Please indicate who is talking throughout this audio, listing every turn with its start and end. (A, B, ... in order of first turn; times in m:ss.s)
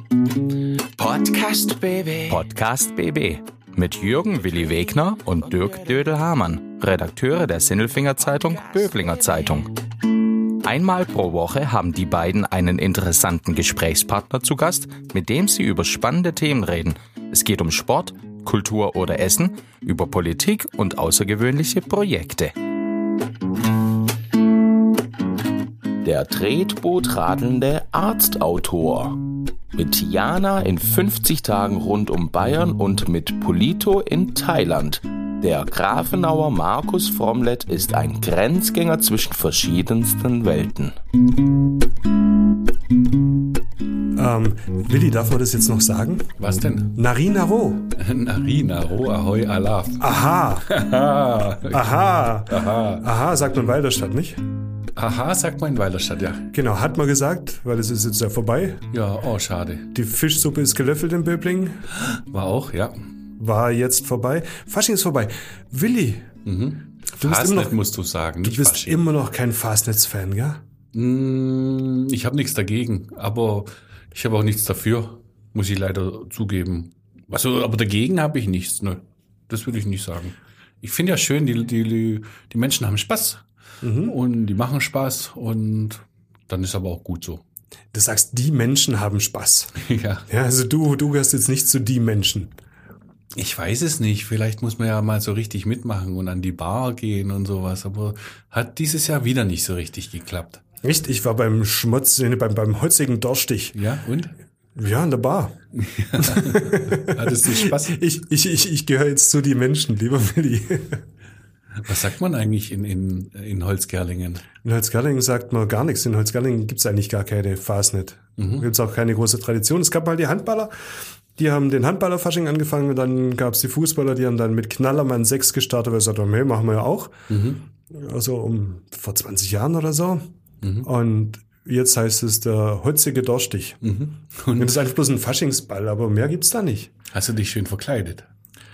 0:01.0-0:09.7 A
0:10.6-0:22.5 A
0:26.0-0:29.2 A
0:29.8-0:41.0 A
0:44.2-0:46.3 B
0:46.4-0:46.9 C
0:47.0-0:47.9 B
0:48.0-0:50.1 C
0:50.0-0:50.7 B
0:50.7-0:53.1 C
0:51.7-0:54.4 B
0:55.0-0:56.5 C
0:56.5-0:58.9 B
0:58.9-0:59.9 C
0:59.9-1:01.9 B
1:02.0-1:03.1 C
1:03.4-1:06.3 B
1:06.4-1:09.0 C
1:07.2-1:07.8 B
1:08.4-1:10.6 B
1:10.9-1:23.4 C
1:23.8-1:24.2 B
1:24.0-1:27.4 C
1:27.9-1:29.8 B
1:29.8-1:30.2 C
1:30.3-1:32.5 B
1:33.4-1:40.6 C
1:40.8-1:43.8 B
1:43.7-1:44.3 C
1:44.8-1:45.6 B
1:45.7-1:48.0 C
1:46.2-1:51.0 B
1:51.8-1:54.5 C
1:54.6-2:00.7 B
1:58.4-1:58.6 C
2:01.4-2:07.3 B
2:07.3-2:07.6 C
2:07.9-2:10.3 B
2:10.6-2:10.9 C
2:10.8-2:13.9 B
2:13.8-2:14.8 C
2:14.6-2:16.9 B
2:17.1-2:18.3 C